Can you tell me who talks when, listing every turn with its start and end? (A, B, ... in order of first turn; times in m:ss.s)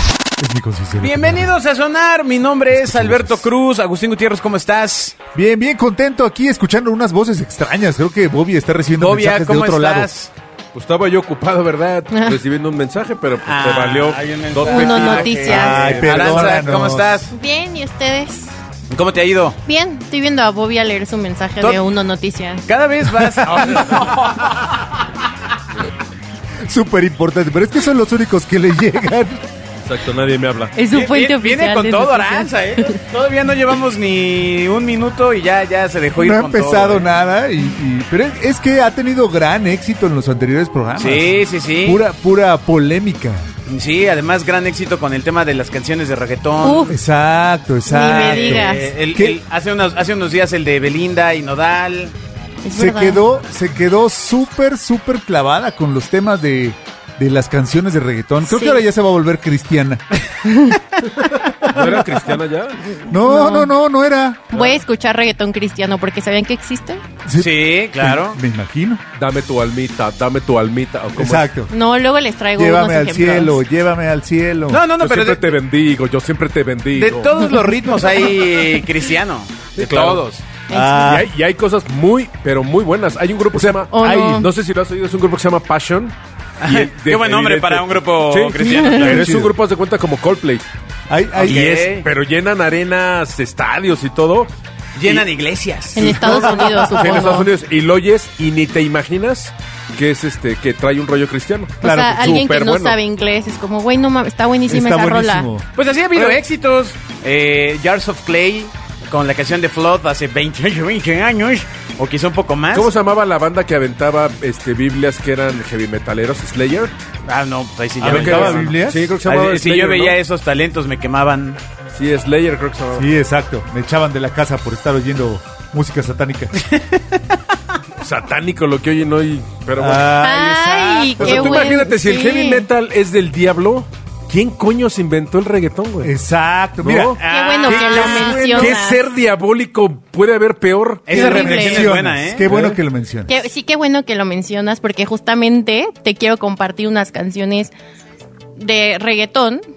0:00.4-0:01.5 A
0:01.0-0:05.2 B
0:02.7-0:03.5 A
0:05.3-0:10.1 A
0:09.0-0:10.3 B
0:10.7-0:16.7 C
0:12.1-0:12.4 D
0:13.4-0:17.3 B
0:14.7-0:15.9 D
0:15.5-0:17.1 A
0:17.3-0:18.5 D
0:18.9-0:19.6 B
0:19.6-0:22.7 D
0:22.7-0:24.7 B
0:26.6-0:29.4 A
0:29.8-0:30.7 C
0:30.8-0:33.0 D
0:30.9-0:37.0 B
0:36.2-0:43.4 A
0:41.0-0:42.0 B
0:43.7-0:46.9 B
0:46.6-0:47.0 D
0:46.9-0:49.4 A
0:47.9-0:48.9 D
0:48.0-0:52.1 B
0:52.6-0:53.2 D
0:52.7-1:00.0 A
0:58.4-0:58.8 D
1:00.5-1:00.8 D
1:01.6-1:02.9 C
1:03.0-1:03.7 D
1:03.1-1:04.5 A
1:04.5-1:07.0 D
1:07.2-1:09.0 A
1:07.4-1:08.4 B
1:09.2-1:11.5 C
1:11.2-1:11.7 A
1:11.7-1:13.6 D
1:12.6-1:14.8 A
1:14.7-1:15.4 B
1:15.0-1:17.3 C
1:17.0-1:20.4 B
1:19.8-1:20.2 C
1:20.7-1:21.2 D
1:20.7-1:21.3 A
1:21.0-1:30.7 C
1:23.6-1:24.5 A
1:23.9-1:24.5 D
1:26.6-1:29.4 B
1:29.0-1:29.5 A
1:31.1-1:31.7 A
1:31.4-1:34.5 C
1:31.4-1:32.1 B
1:35.0-1:36.9 B
1:36.0-1:37.5 D
1:36.0-1:37.3 A
1:36.6-1:43.0 C
1:41.8-1:45.5 D
1:41.8-1:42.3 A
1:44.7-1:45.6 A
1:45.8-1:52.9 B
1:46.2-1:46.4 C
1:52.7-1:56.9 C
1:57.3-2:01.6 B
1:58.0-1:59.1 A
1:58.0-2:00.2 C
2:02.0-2:03.1 C
2:02.9-2:06.5 A
2:06.6-2:07.2 B
2:08.0-2:10.2 C
2:09.8-2:11.8 A
2:10.2-2:12.7 D
2:11.2-2:16.1 C
2:16.0-2:18.8 A
2:16.8-2:17.2 C
2:17.2-2:18.2 B
2:17.2-2:19.0 D
2:18.1-2:21.2 C
2:21.1-2:22.5 B
2:21.1-2:21.9 D
2:21.1-2:23.3 A
2:22.4-2:22.8 C
2:23.3-2:27.7 D
2:28.6-2:29.6 D